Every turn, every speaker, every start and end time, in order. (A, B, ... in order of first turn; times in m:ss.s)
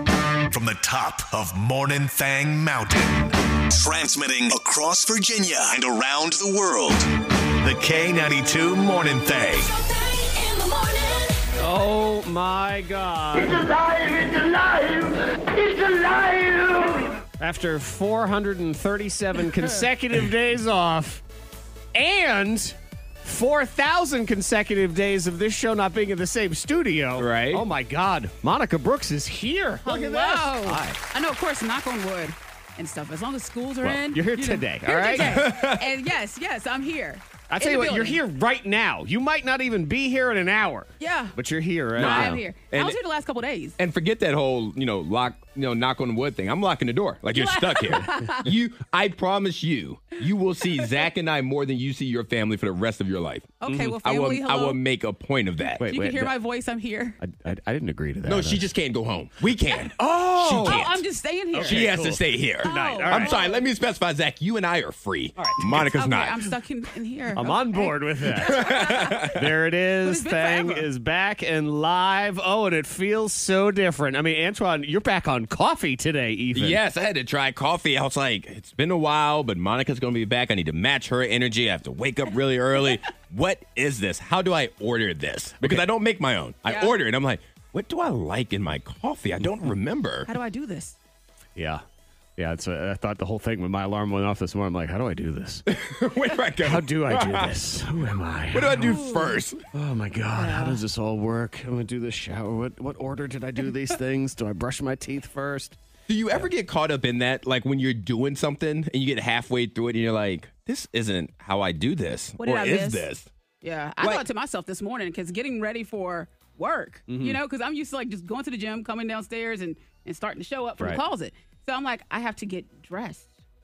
0:00.5-0:09.7 A
0:11.6-0:13.7 B
0:13.5-0:17.0 C
0:17.4-0:21.2 B
0:21.9-0:31.0 B
0:27.2-0:27.6 D
0:29.8-0:38.2 E
0:33.8-0:35.4 B
0:35.1-0:35.9 D
0:37.5-0:42.4 B
0:41.0-0:41.4 E
0:42.0-0:43.8 E
0:42.0-0:43.0 D
0:43.8-0:55.9 D
0:47.3-0:48.5 E
0:53.6-0:54.8 E
0:53.7-0:54.0 B
0:55.8-0:56.3 B
0:55.9-0:57.2 E
0:57.2-0:58.6 B
0:58.2-1:01.0 D
1:00.0-1:00.8 B
1:00.6-1:01.8 E
1:01.5-1:03.4 B
1:01.6-1:06.4 D
1:02.6-1:03.6 E
1:05.4-1:05.7 B
1:05.7-1:09.4 E
1:07.4-1:16.8 B
1:08.4-1:09.4 D
1:10.0-1:10.8 E
1:16.5-1:30.3 D
1:26.7-1:26.9 E
1:30.3-1:31.0 E
1:31.6-1:31.8 B
1:32.4-1:35.6 B
1:35.7-1:37.5 D
1:36.6-1:39.1 B
1:38.5-1:39.6 D
1:38.9-1:39.4 E
1:39.7-1:45.8 B
1:40.4-1:40.8 E
1:46.1-1:53.3 D
1:52.4-1:53.1 E
1:53.6-2:03.3 E
1:57.1-1:57.4 B